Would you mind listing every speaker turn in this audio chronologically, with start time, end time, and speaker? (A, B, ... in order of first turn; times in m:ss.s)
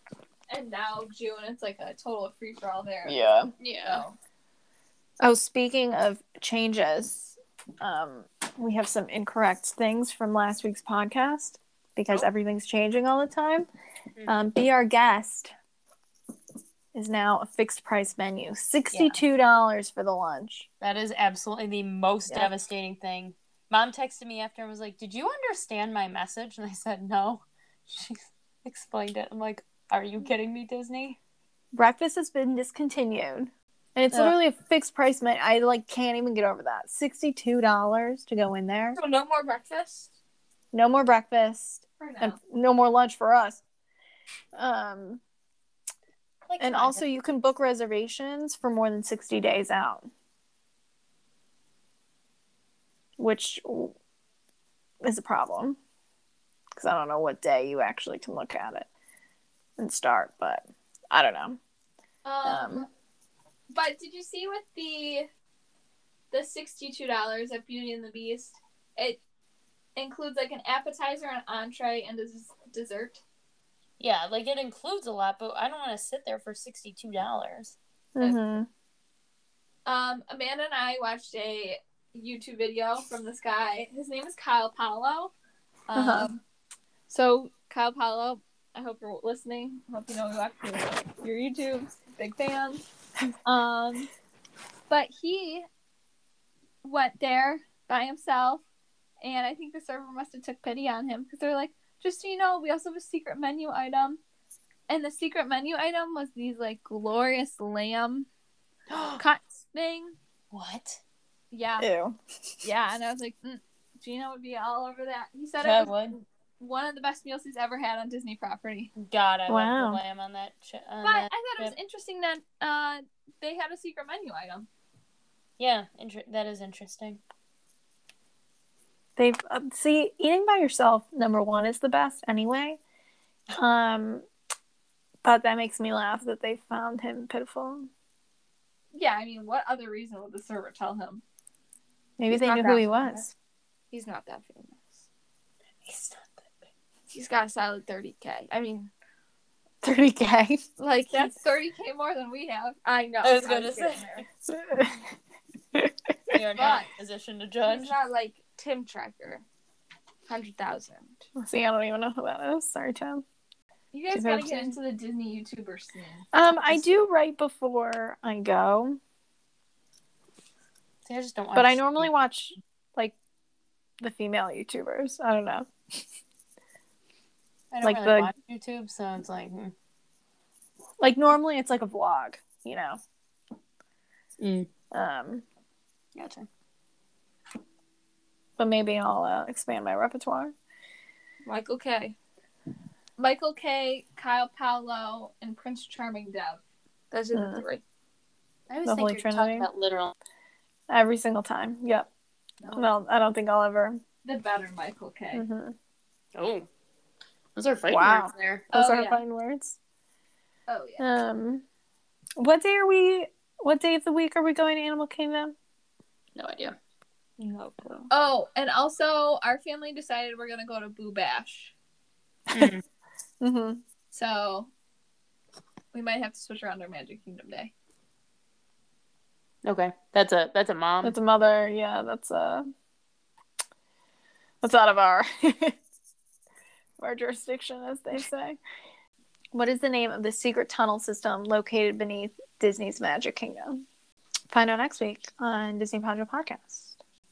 0:00.5-0:04.2 A
0:03.1-0:03.5 B
0:03.6-0:04.0 C
0:05.2-0:13.7 B
0:14.3-0:15.5 B
0:16.9-0:20.7 B
0:18.9-0:19.2 C
0:20.8-0:31.2 C
0:31.7-0:39.0 B
0:34.1-0:34.4 C
0:39.0-0:40.1 D
0:40.7-0:43.6 B
0:42.0-0:42.4 A
0:44.6-0:45.2 B
0:46.5-0:47.0 C
0:46.6-0:50.1 B
0:53.2-0:54.0 B
0:55.0-0:55.8 B
0:56.8-0:58.9 B
0:59.8-1:01.6 B
1:02.2-1:02.9 A
1:02.4-1:02.9 B
1:03.7-1:05.3 A
1:06.3-1:09.2 A
1:10.0-1:13.2 A
1:14.0-1:17.8 C
1:18.2-1:18.7 B
1:19.8-1:25.3 A
1:25.9-1:26.4 A
1:26.0-1:26.3 B
1:27.1-1:32.8 A
1:33.4-1:34.1 A
1:34.9-1:35.7 A
1:36.8-1:38.6 A
1:39.2-1:44.2 A
1:44.9-1:48.3 A
1:48.9-1:49.2 C
1:49.2-1:50.2 A
1:50.5-1:51.0 C
1:51.5-1:51.9 A
1:51.8-1:52.2 B
1:52.6-1:58.9 A
1:55.6-1:56.2 C
1:59.0-2:01.8 C
1:59.5-2:00.0 B
2:01.0-2:04.7 A
2:05.6-2:07.2 C
2:09.2-2:12.8 B
2:13.5-2:14.2 B
2:15.2-2:17.9 B
2:18.9-2:21.2 A
2:22.2-2:23.3 B
2:22.3-2:23.2 D
2:23.9-2:25.0 D
2:25.8-2:26.5 C
2:27.1-2:28.9 D
2:29.8-2:30.6 B
2:30.8-2:31.3 D
2:31.1-2:32.8 A
2:32.8-2:34.3 D
2:33.2-2:34.1 C
2:34.5-2:35.1 B
2:36.3-2:36.9 A
2:36.3-2:38.0 C
2:37.6-2:39.4 D
2:40.3-2:41.2 D
2:41.4-2:43.2 B
2:43.9-2:46.3 A
2:44.1-2:44.8 B
2:46.3-2:49.0 B
2:51.1-2:52.1 C
2:51.6-2:53.2 B
2:54.0-2:55.7 B
2:57.7-2:59.7 C
2:57.8-2:58.3 B
3:01.0-3:03.0 B
3:04.4-3:04.7 C
3:04.9-3:05.4 B
3:06.2-3:06.5 C
3:08.6-3:10.5 B
3:11.4-3:12.2 D
3:13.2-3:16.6 A
3:17.1-3:17.8 D
3:17.3-3:17.6 B
3:18.7-3:20.2 C
3:18.8-3:19.7 B
3:20.9-3:22.1 B
3:22.6-3:22.9 A
3:22.7-3:24.0 B
3:24.2-3:25.4 A
3:25.3-3:25.8 B
3:26.4-3:26.7 C
3:27.6-3:28.7 C
3:27.9-3:29.8 B
3:28.7-3:29.2 A
3:30.7-3:31.0 A
3:31.0-3:31.6 B
3:32.4-3:35.6 B
3:36.4-3:36.8 C
3:37.4-3:38.1 D
3:38.1-3:41.7 A
3:42.5-3:42.8 C
3:43.4-3:43.8 B
3:44.1-3:44.7 A
3:45.9-3:47.7 A
3:49.6-3:51.2 C
3:51.0-3:52.7 B
3:54.6-3:55.8 B
3:57.0-3:58.6 B
3:59.5-4:03.8 B
4:04.5-4:07.0 B